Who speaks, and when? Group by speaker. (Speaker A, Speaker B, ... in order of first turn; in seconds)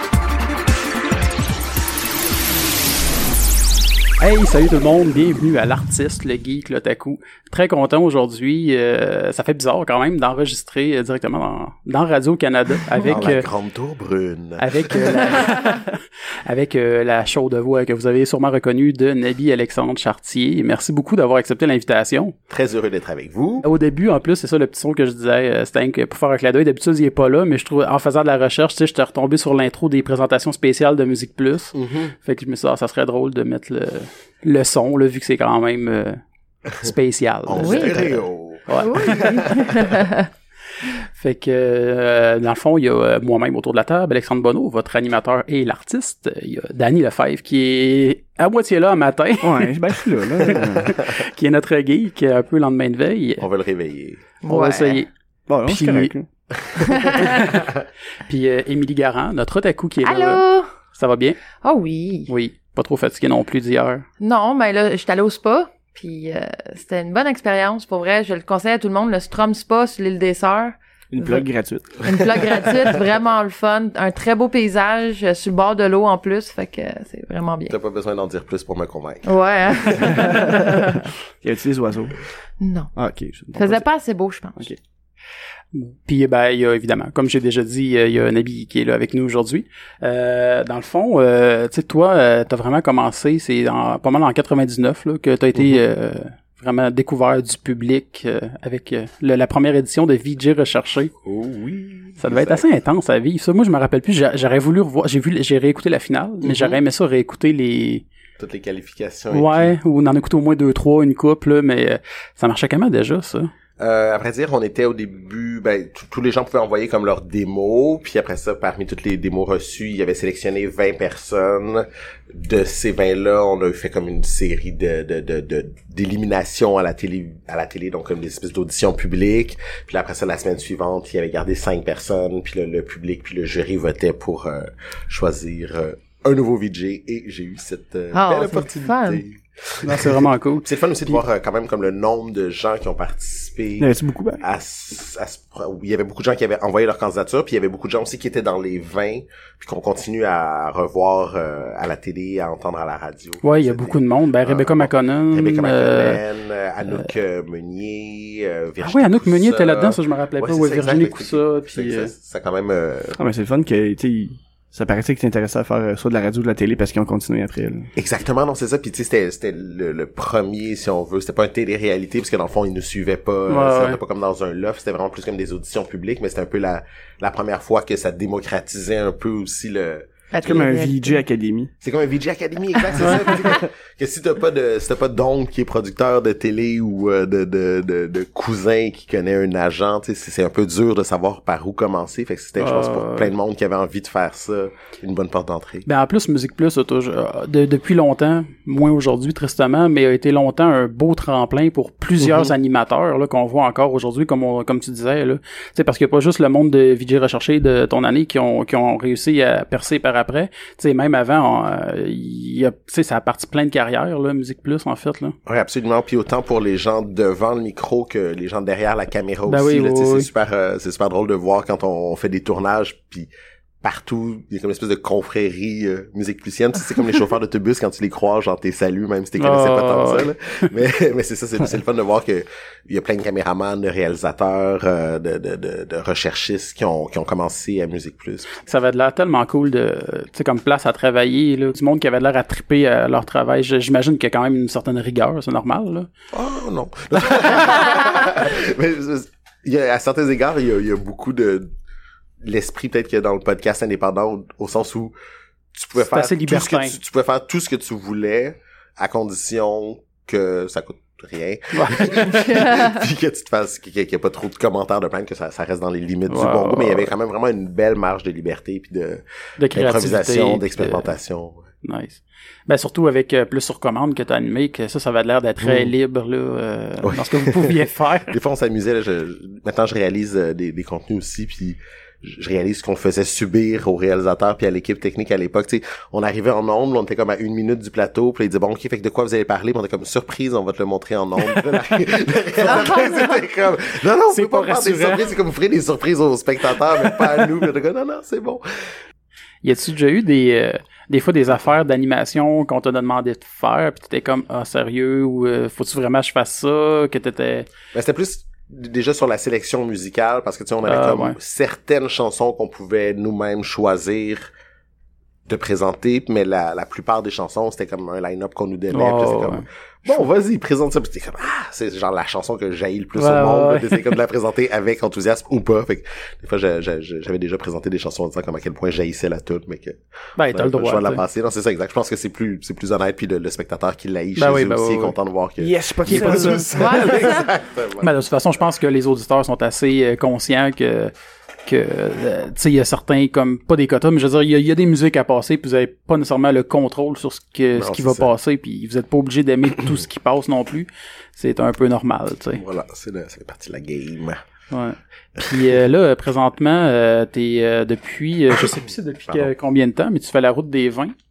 Speaker A: 4.2-13.5, 14.6-22.4, 23.6-36.2, 36.8-39.7, 40.9-49.7, 50.5-53.5, 54.5-55.1, 55.6-56.1, 57.0-57.7, 58.3-60.4, 60.9-61.4, 62.3-64.0, 85.7-101.1, 102.2-108.0, 109.3-113.5, 139.8-141.2, 153.4-156.2, 158.8-162.1, 173.5-174.0, 183.0-183.3, 192.6-193.3, 195.9-215.3, 219.5-220.3, 229.4-230.3, 238.6-246.1, 256.0-257.0, 261.7-262.6, 266.3-267.1, 269.6-271.1, 271.8-278.4, 294.3-295.3, 299.6-307.7, 310.9-311.4, 318.9-320.2, 323.2-324.1, 330.4-331.2, 334.4-335.1, 336.1-336.6, 338.0-341.1, 341.6-352.6, 354.7-361.1
Speaker B: 13.1-15.6, 22.5-23.7, 31.7-32.1, 36.7-36.9, 37.5-40.0, 53.4-54.3, 56.6-57.9, 77.7-80.5, 101.2-102.7, 106.4-106.8, 108.4-109.7, 113.8-143.9, 144.4-163.2, 168.0-180.1, 181.8-195.9, 215.5-223.3, 223.8-238.5, 246.3-251.7, 252.4-255.2, 255.7-271.7, 275.6-275.9, 277.0-298.9, 307.9-314.5, 315.5-338.1, 347.8-348.3, 352.5-354.4
Speaker C: 37.5-38.0, 38.8-40.3, 54.4-55.0, 56.8-57.3, 60.0-60.7, 61.6-62.3, 64.2-71.5, 72.0-77.8, 79.2-81.1, 82.6-82.9, 83.5-84.7, 138.1-139.2, 180.3-181.2, 183.3-183.6, 262.5-263.0, 292.8-293.4, 336.7-337.5
Speaker D: 49.4-50.9, 55.5-56.3, 71.1-72.9, 80.3-80.7, 81.4-82.2, 83.0-83.8, 143.8-144.4, 163.2-167.9, 180.4-181.7, 335.6-337.1